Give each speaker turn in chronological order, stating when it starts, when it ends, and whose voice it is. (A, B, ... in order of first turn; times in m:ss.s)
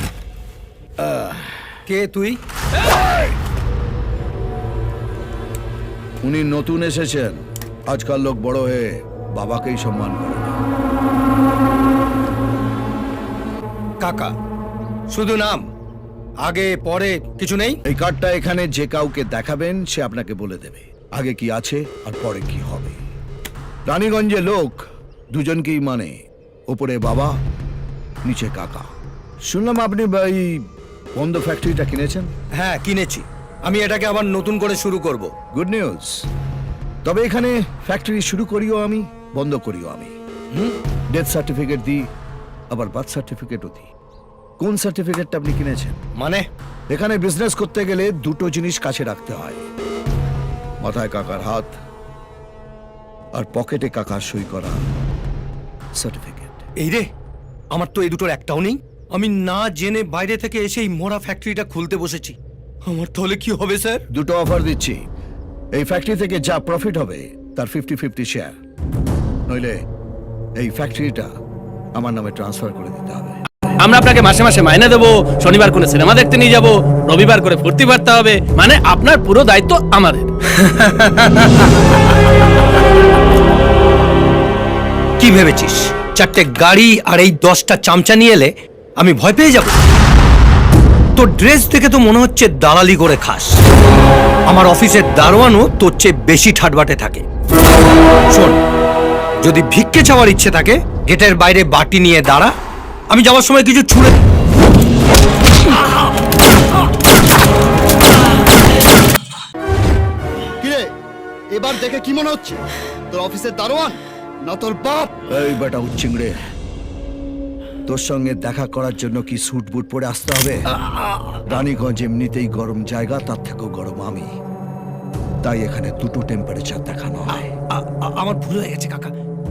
0:01.8-0:02.4 A
0:06.2-0:10.6 B
0:14.0-0:14.3 A
0:15.1-0:15.7 A
0:16.4-0:17.8 A
0:17.8-0:23.0 B
0:23.9-0:27.3 B
0:28.2-0:28.9 B
0:29.4-0:30.6 B
0:31.2-0:32.3 B
0:32.6-0:35.3 A
0:35.5-0:36.3 B
0:37.0-0:40.1 B
0:41.1-0:42.1 B
0:42.7-0:43.9 B
0:44.6-0:46.0 B
0:46.2-0:46.5 A
0:46.9-0:49.6 B
0:50.8-0:51.8 B
0:53.3-0:54.9 B
0:55.9-0:56.6 B
0:56.8-0:57.1 A
0:57.7-1:04.0 A
1:04.1-1:05.0 B
1:05.7-1:08.6 B
1:09.5-1:09.8 B
1:10.6-1:11.3 B
1:11.9-1:13.8 B
1:13.8-1:20.3 C
1:20.5-1:21.8 A
1:25.2-1:29.8 A
1:31.1-1:33.6 A
1:34.5-1:37.2 A
1:38.3-1:38.6 A
1:39.4-1:42.5 A
1:43.1-1:44.2 A
1:50.6-1:50.9 D
1:51.5-1:55.1 D
1:55.3-1:56.3 B
1:57.9-2:00.6 B
2:00.9-2:01.6 A
2:01.5-2:04.3 B
2:05.4-2:07.5 B
2:07.3-2:09.1 A